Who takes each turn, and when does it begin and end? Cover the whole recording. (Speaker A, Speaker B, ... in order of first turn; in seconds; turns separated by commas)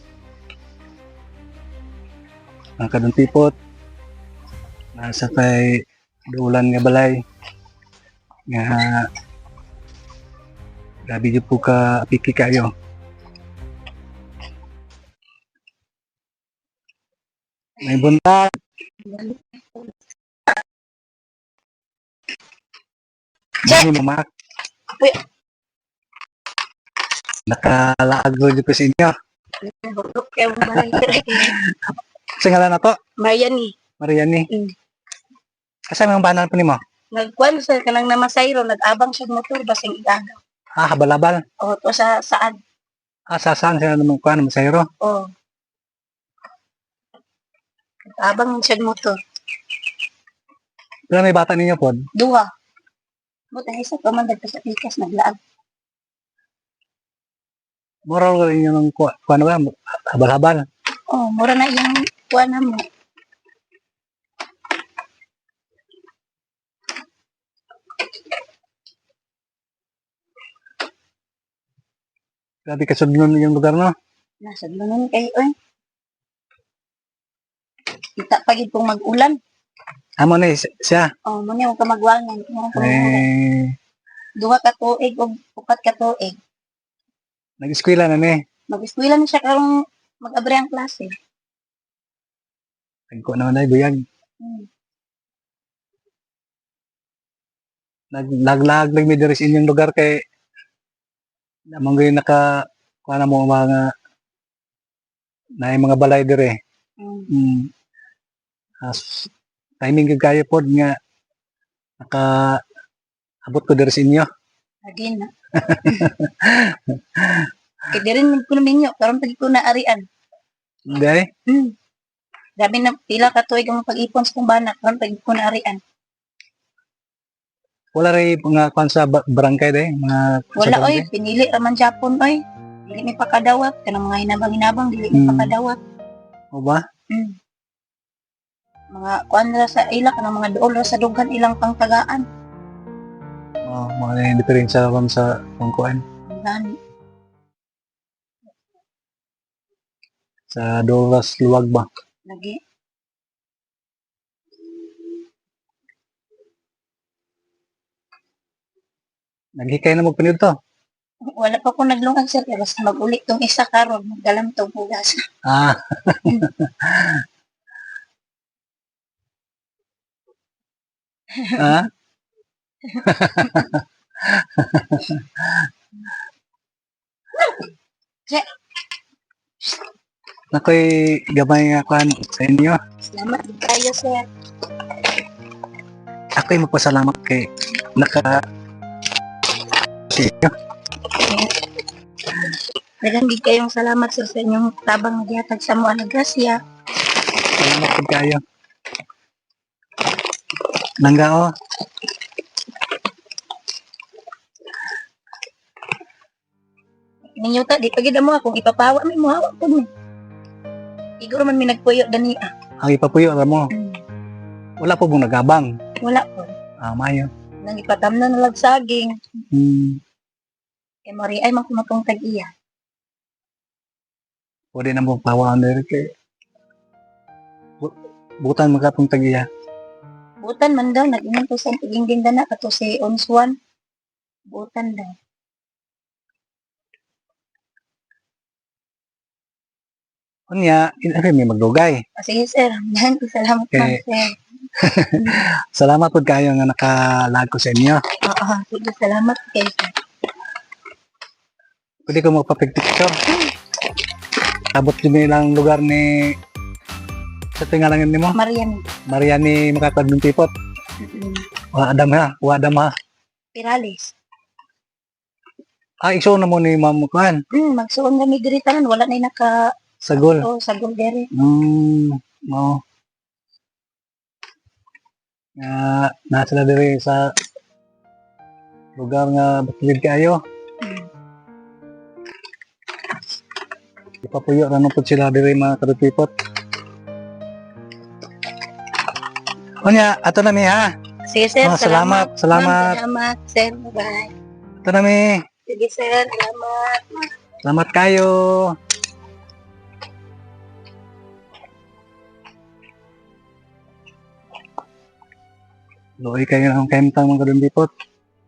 Speaker A: 2.8-3.5, Speaker A: 5.0-5.8, Speaker A: 6.3-7.2, Speaker A: 8.5-9.1, Speaker A: 11.1-12.7, Speaker A: 17.8-18.5, Speaker B: 19.0-19.9, Speaker A: 23.6-24.3, Speaker A: 27.5-29.1, Speaker B: 29.6-31.6, Speaker A: 30.7-33.0, Speaker B: 33.2-33.7, Speaker A: 34.0-34.5, Speaker B: 34.5-34.7, Speaker A: 35.9-36.8, Speaker B: 37.1-40.4, Speaker A: 40.8-41.4, Speaker B: 41.6-42.6, Speaker A: 43.3-44.9, Speaker B: 45.0-45.3, Speaker B: 48.1-49.2, Speaker A: 51.1-52.0, Speaker B: 52.1-52.5, Speaker B: 53.5-55.4, Speaker A: 58.1-60.6, Speaker B: 61.1-62.9, Speaker A: 72.7-73.9, Speaker B: 74.4-75.5, Speaker B: 78.2-79.4, Speaker A: 80.2-81.1, Speaker B: 81.2-83.3, Speaker A: 82.7-83.8, Speaker B: 84.4-86.4, Speaker A: 87.6-88.4, Speaker B: 88.7-89.7, Speaker B: 90.2-91.2, Speaker A: 93.1-94.0, Speaker B: 94.4-94.7, Speaker A: 98.1-100.2, Speaker A: 101.8-102.5, Speaker A: 103.0-103.9, Speaker A: 105.6-106.6, Speaker B: 107.0-107.3, Speaker A: 107.3-107.7, Speaker A: 108.8-109.3, Speaker A: 109.8-111.0, Speaker A: 112.0-112.6, Speaker A: 113.5-114.3, Speaker B: 114.8-115.3, Speaker A: 115.5-117.5, Speaker B: 115.8-116.1, Speaker B: 117.9-120.0, Speaker A: 120.9-121.3, Speaker B: 121.5-121.7, Speaker B: 122.6-125.8, Speaker A: 127.9-131.1, Speaker B: 130.6-135.8, Speaker A: 135.1-135.5, Speaker A: 136.5-136.8, Speaker B: 137.1-137.3, Speaker B: 138.9-142.2, Speaker A: 143.7-146.0, Speaker B: 146.3-146.8, Speaker A: 150.5-151.9, Speaker B: 152.3-152.6, Speaker A: 159.6-160.5, Speaker B: 161.3-165.2, Speaker A: 165.4-167.2, Speaker B: 171.3-171.8, Speaker A: 171.6-171.9, Speaker B: 172.9-173.7, Speaker A: 173.0-175.7, Speaker A: 180.5-182.8, Speaker B: 183.0-184.2, Speaker A: 186.4-188.4, Speaker A: 190.1-190.5, Speaker B: 191.1-191.5, Speaker B: 192.4-196.6, Speaker A: 197.5-198.4, Speaker A: 201.0-201.5, Speaker B: 207.3-209.9, Speaker B: 211.2-212.5, Speaker A: 212.8-213.7, Speaker B: 213.7-214.0, Speaker A: 214.8-215.7, Speaker B: 216.0-216.5, Speaker A: 216.8-217.3, Speaker B: 217.6-219.2, Speaker A: 219.5-220.0, Speaker B: 221.1-222.5, Speaker A: 224.7-226.1, Speaker A: 227.8-229.5, Speaker B: 230.4-233.6, Speaker B: 234.5-235.2, Speaker A: 240.5-242.0, Speaker B: 242.2-244.4, Speaker A: 243.7-244.0, Speaker A: 244.8-248.0, Speaker B: 245.2-245.4, Speaker B: 248.2-249.9, Speaker A: 252.1-253.2, Speaker A: 254.7-256.3, Speaker A: 257.6-258.4, Speaker B: 258.3-258.8, Speaker A: 259.1-260.5, Speaker B: 261.0-261.4, Speaker A: 261.7-262.9, Speaker B: 263.5-264.1, Speaker A: 266.0-267.4, Speaker B: 267.5-269.7, Speaker A: 270.0-270.5, Speaker B: 270.4-271.3, Speaker A: 271.3-272.8, Speaker A: 275.6-277.3, Speaker A: 279.0-280.4, Speaker A: 284.2-286.3, Speaker A: 289.8-290.9, Speaker B: 291.3-294.3, Speaker A: 291.6-293.0, Speaker A: 294.8-295.4, Speaker B: 295.7-297.3, Speaker A: 297.6-298.7, Speaker A: 306.2-307.9